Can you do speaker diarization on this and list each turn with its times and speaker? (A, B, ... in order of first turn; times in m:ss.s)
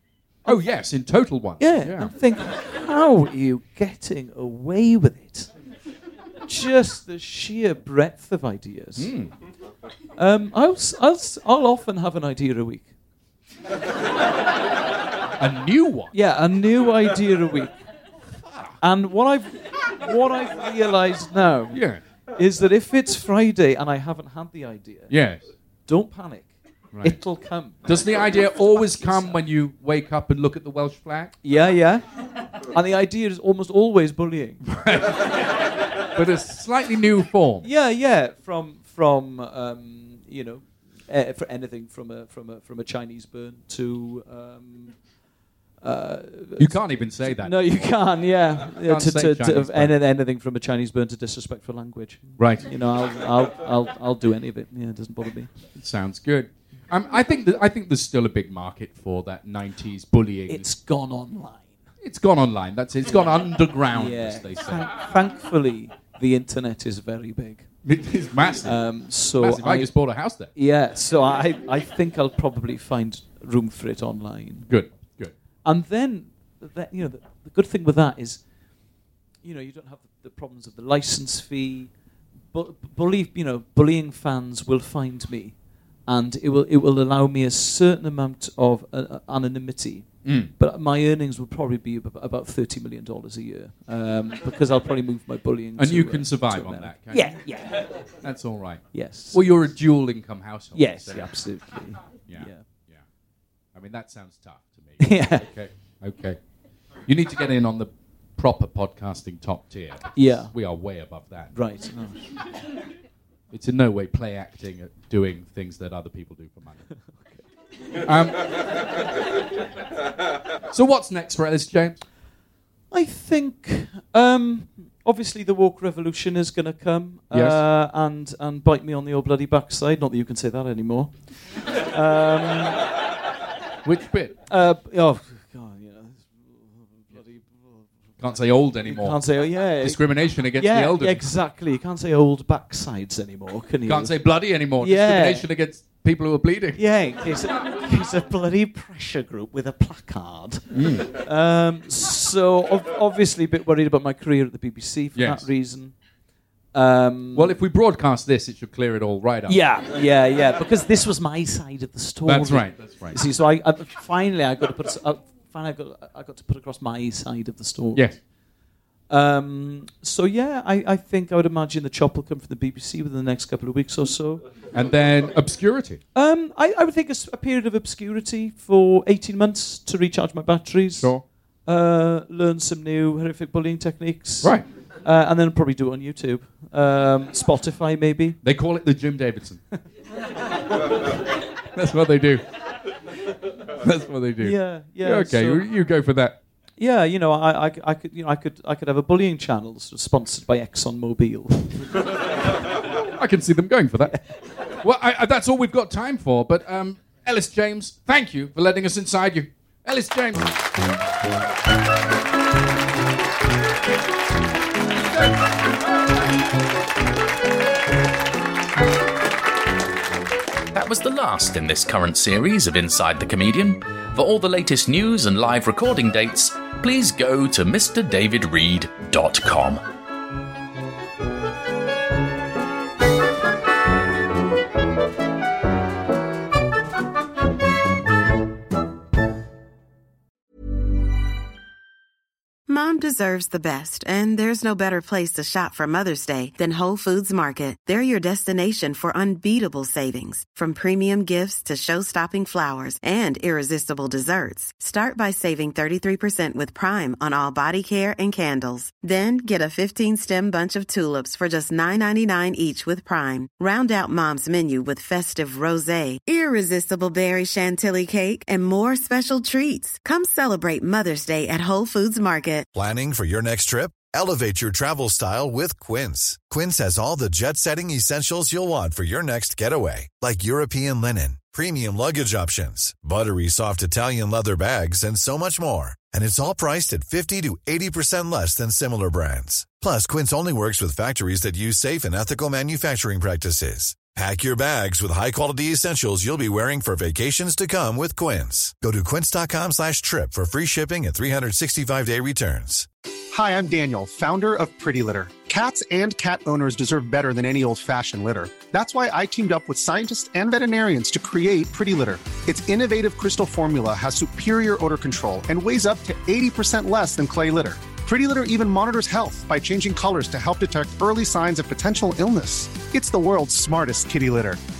0:00.5-0:02.1 A
0:01.6-0:05.5 B
0:06.5-0:09.1 B
0:09.0-0:09.3 A
0:10.2-0:12.9 B
0:15.4-0:16.2 A
0:16.1-0:17.8 B
0:18.5-0:18.8 A
0:18.8-0:21.8 B
0:21.7-0:22.0 A
0:22.3-0:25.1 B
0:25.1-0:25.4 A
0:25.9-0:29.4 B
0:26.9-0:27.2 A
0:27.8-0:31.4 A
0:31.4-0:32.0 B
0:32.6-0:34.7 B
0:34.7-0:37.7 A
0:37.6-0:45.0 B
0:45.8-0:55.5 B
0:46.6-0:50.0 A
0:52.4-0:52.7 A
0:55.8-1:00.7 A
1:00.5-1:01.8 B
1:02.0-1:04.9 A
1:03.9-1:07.7 B
1:07.8-1:10.5 A
1:08.6-1:10.0 B
1:10.5-1:14.7 B
1:14.7-1:15.3 A
1:15.6-1:18.5 B
1:19.4-1:22.0 B
1:22.5-1:38.0 B
1:30.2-1:30.5 A
1:35.8-1:37.6 A
1:38.2-1:41.4 A
1:38.9-1:39.4 B
1:40.7-1:42.6 B
1:42.1-1:43.0 A
1:43.7-1:46.4 A
1:45.0-1:45.5 B
1:47.1-1:51.6 A
1:50.2-1:50.5 B
1:51.5-1:52.4 B
1:53.5-1:57.1 A
1:57.1-1:57.4 B
1:58.0-1:59.0 A
2:00.7-2:02.0 A
2:02.9-2:12.9 B
2:07.3-2:07.6 A
2:13.8-2:14.4 A
2:14.5-2:17.9 B
2:18.2-2:21.3 A
2:18.8-2:24.3 B
2:23.9-2:26.8 A
2:24.8-2:25.5 B
2:26.8-2:36.0 B
2:30.7-2:31.1 A
2:35.2-2:35.5 A
2:36.7-2:37.6 B
2:37.4-2:39.6 A
2:39.5-2:48.2 B
2:42.3-2:43.2 A
2:49.1-2:54.4 B
2:54.7-2:56.0 A
2:56.2-3:08.4 B
3:01.0-3:01.2 A
3:04.4-3:04.7 A
3:08.4-3:09.7 A
3:11.7-3:12.4 A
3:13.8-3:16.4 A
3:14.4-3:15.7 B
3:16.8-3:22.0 B
3:23.2-3:30.5 A
3:40.7-3:49.8 C
4:02.7-4:32.7 D
4:32.7-5:02.9 E
5:03.3-5:24.6 F